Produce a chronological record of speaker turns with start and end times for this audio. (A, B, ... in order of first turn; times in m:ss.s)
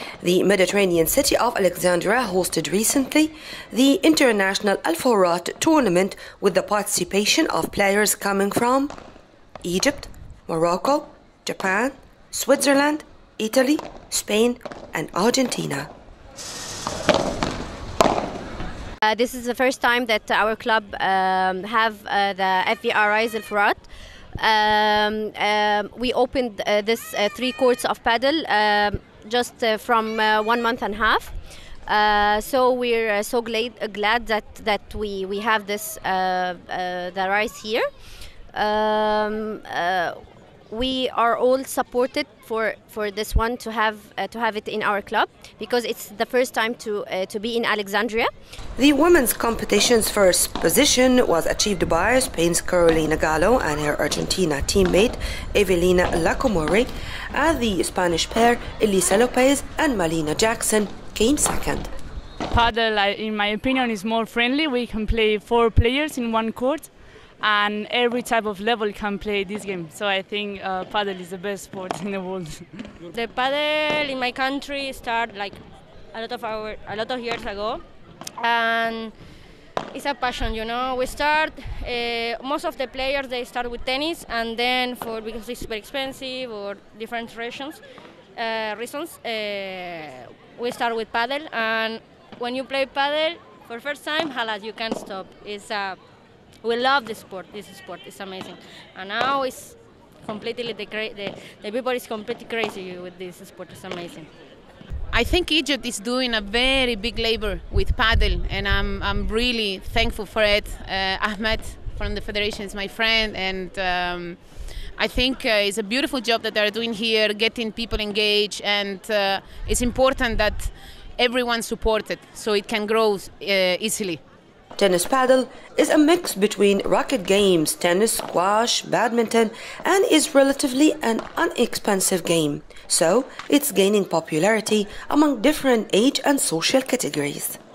0:00.2-0:08.9 A
0:09.6-0:15.9 A
0:19.0-0:23.8 B
0:24.4-0:31.3 B
0:31.9-0:37.9 B
0:38.5-0:48.3 B
0:48.8-1:01.9 A
1:02.5-1:13.1 C
1:13.1-1:15.6 D
1:16.1-1:17.8 D
1:18.4-1:19.1 D
1:19.9-1:27.8 D
1:28.4-1:36.0 D
1:36.6-1:44.3 D
1:45.1-2:04.2 E
2:04.8-2:17.6 A